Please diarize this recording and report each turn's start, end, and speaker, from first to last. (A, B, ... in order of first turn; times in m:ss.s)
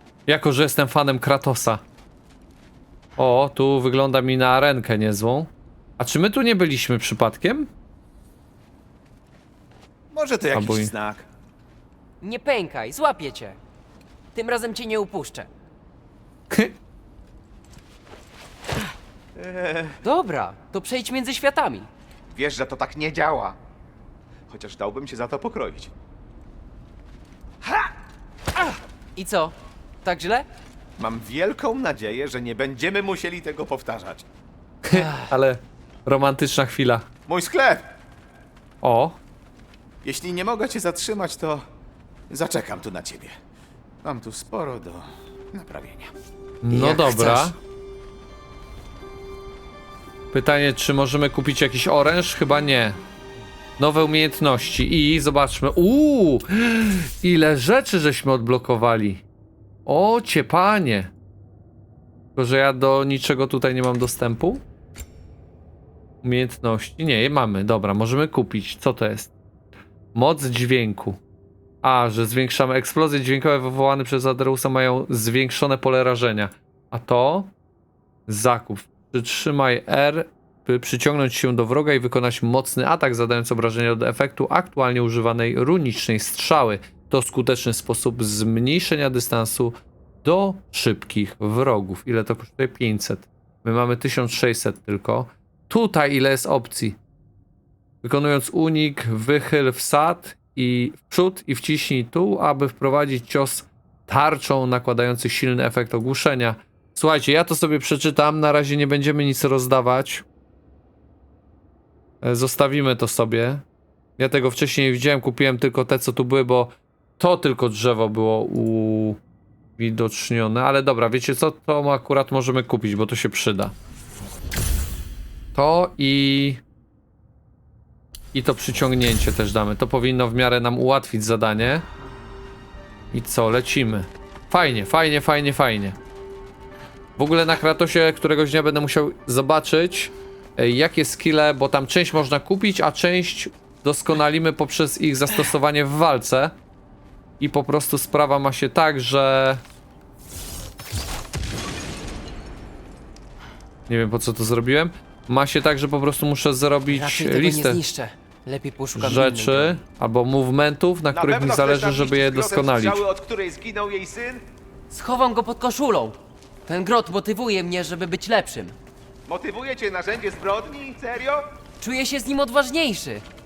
0:00.3-0:01.8 A
0:03.2-0:07.7 A
0:10.1-0:11.2 B
0:10.5-0:10.9 A
0:12.2-0:13.6 C
0:14.3-0:15.5 C
0:19.3-0:20.0 B
0:20.0-0:21.9 C
0:22.3-0:23.6 B
0:24.5-0:25.9 B
0:29.2-0:30.5 C
0:31.0-0:34.2 B
0:34.9-0:37.1 A
0:34.9-0:35.3 C
0:37.3-0:37.9 B
0:38.8-0:39.2 A
0:40.0-0:41.6 B
0:42.3-0:43.4 B
0:44.0-0:46.1 B
0:46.6-0:47.5 A
0:46.7-0:47.6 C
0:50.3-0:53.0 A
0:53.8-0:59.2 A
0:59.8-1:01.1 A
1:02.4-1:04.6 A
1:06.2-1:09.3 A
1:10.1-1:11.2 A
1:11.8-1:17.5 A
1:18.3-1:37.0 A
1:38.0-1:50.2 A
1:52.2-1:53.6 A
1:54.2-1:59.2 A
1:59.8-2:03.7 A
2:05.5-2:06.6 A
2:08.3-2:11.8 A
2:13.1-2:16.0 A
2:17.2-2:26.5 A
2:27.4-2:29.6 A
2:33.9-2:37.8 A
2:36.9-2:39.8 C
2:39.0-2:43.0 A
2:41.1-2:44.4 B
2:44.9-2:48.8 C
2:49.3-2:51.4 B
2:51.8-2:53.2 C